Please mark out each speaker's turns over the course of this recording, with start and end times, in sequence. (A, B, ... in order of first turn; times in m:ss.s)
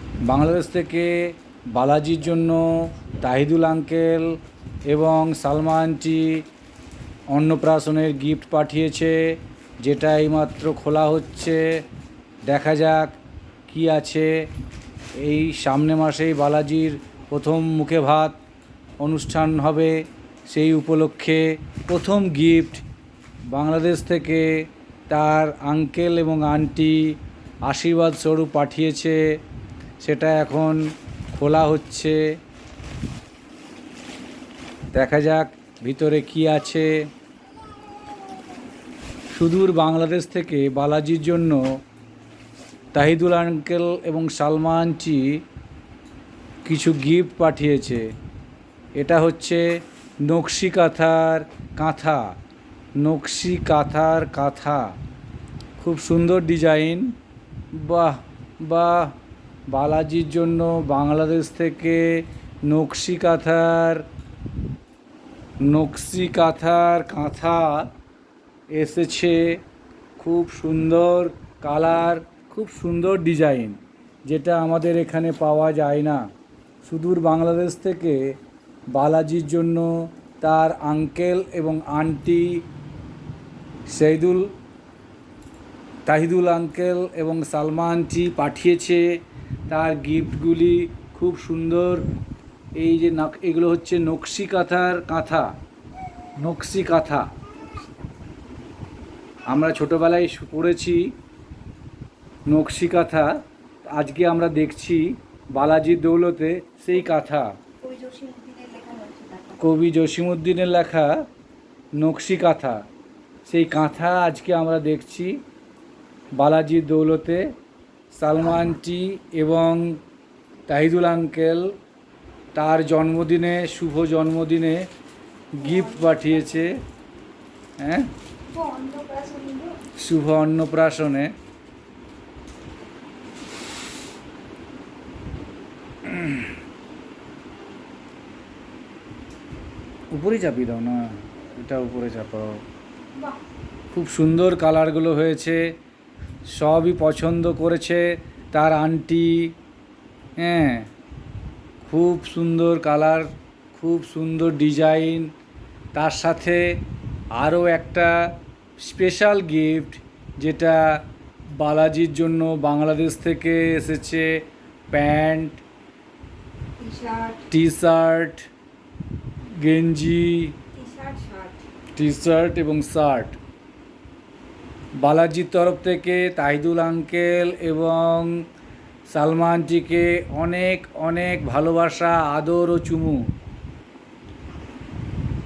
0:00.2-0:04.3 A
0:04.9-0:06.4 A
0:07.3-0:11.8 A
0:12.5-0:13.1 A
0:13.7-0:14.3 A
0:15.2-0:18.4 A
0:19.0-0:22.9 A
0:23.5-0:27.2 A
0:27.7-0:29.2 A
0:30.0-0:30.8 A
0:31.3-0:32.2 A
0:34.9-0:37.0 A
0:39.3-0:41.6 A
0:42.9-0:45.4 A
0:46.6-0:48.0 A
0:49.0-0:49.6 A
0:50.2-0:52.2 A
0:53.0-0:54.8 A
0:55.8-0:57.1 A
0:57.7-0:59.1 A
0:59.7-1:04.0 A
1:05.6-1:07.9 A
1:08.7-1:09.6 A
1:10.2-1:16.2 A
1:16.8-1:18.3 A
1:18.9-1:22.6 A
1:23.9-1:24.5 A
1:26.0-1:29.0 A
1:29.7-1:32.0 A
1:32.8-1:35.5 A
1:36.4-1:37.2 A
1:39.5-1:41.1 A
1:42.5-1:43.3 A
1:43.8-1:47.5 A
1:47.8-1:49.6 B
1:49.6-1:51.2 A
1:52.0-1:52.8 A
1:53.4-1:55.4 A
1:56.4-1:57.4 A
1:58.1-2:00.0 A
2:00.7-2:01.7 A
2:02.6-2:04.9 A
2:05.6-2:06.7 A
2:05.6-2:06.3 B
2:07.8-2:08.1 A
2:08.5-2:09.8 B
2:10.0-2:11.3 A
2:16.0-2:16.5 A
2:20.1-2:22.6 A
2:23.9-2:25.7 A
2:26.5-2:29.5 A
2:30.4-2:30.9 A
2:31.8-2:35.3 A
2:35.9-2:36.6 A
2:37.4-2:38.2 A
2:38.8-2:41.0 A
2:41.6-2:44.3 A
2:44.9-2:45.6 A
2:46.8-2:47.5 B
2:47.5-2:48.5 A
2:49.6-2:50.6 A
2:50.7-2:51.6 B
2:52.0-2:53.4 A
2:55.0-2:58.3 A
2:59.1-3:03.2 A